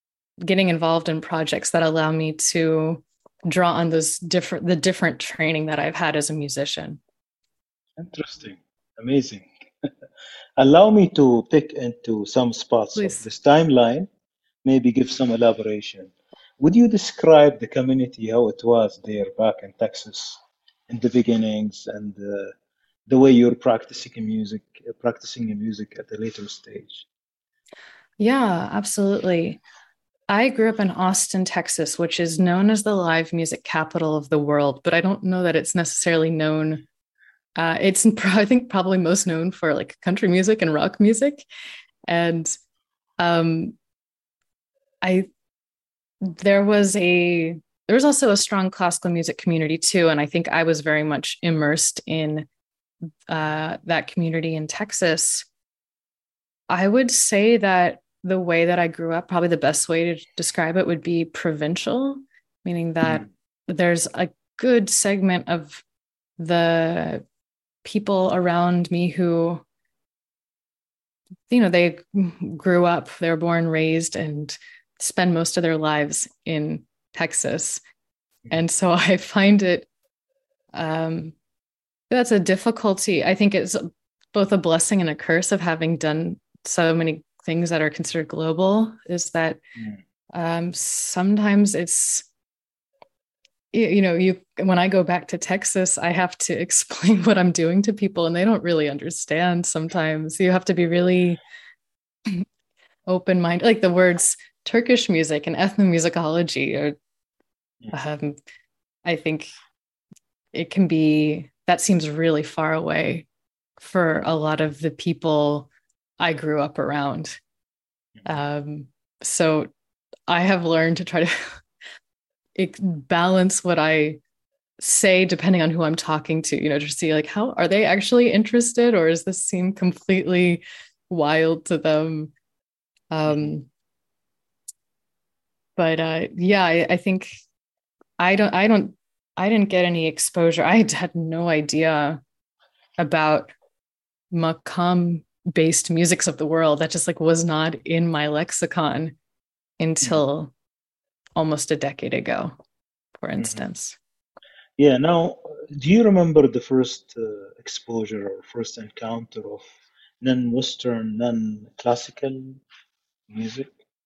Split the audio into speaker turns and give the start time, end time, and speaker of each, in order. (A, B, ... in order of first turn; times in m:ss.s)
0:00.4-0:07.0 A
0:08.0-0:09.5 B
0:10.6-0:14.1 B
0:12.9-0:13.3 A
0:14.6-0:22.5 B
0:23.1-0:27.0 B
0:28.2-0:29.6 A
0:30.3-0:36.8 A
0:37.6-0:41.4 A
0:42.1-0:42.5 A
0:43.2-0:43.7 A
0:46.2-0:52.5 A
0:53.3-0:55.5 A
0:56.7-1:05.8 A
1:06.4-1:07.2 A
1:07.8-1:09.6 A
1:11.5-1:17.8 A
1:18.5-1:19.9 A
1:20.7-1:21.3 A
1:22.1-1:29.6 A
1:30.3-1:32.2 A
1:33.7-1:41.4 A
1:43.1-1:47.0 A
1:47.9-1:48.4 A
1:49.0-1:49.5 A
1:50.5-1:53.3 A
1:53.8-1:57.4 A
1:58.2-1:59.7 A
2:00.3-2:01.5 A
2:02.6-2:04.2 A
2:04.8-2:12.3 A
2:13.1-2:13.7 A
2:13.2-2:13.5 B
2:15.8-2:17.4 A
2:18.2-2:22.2 A
2:23.0-2:23.5 A
2:24.3-2:29.2 A
2:29.8-2:30.5 A
2:31.4-2:32.5 A
2:33.2-2:34.0 A
2:34.8-2:39.6 B
2:40.2-2:42.6 B
2:43.3-2:43.7 B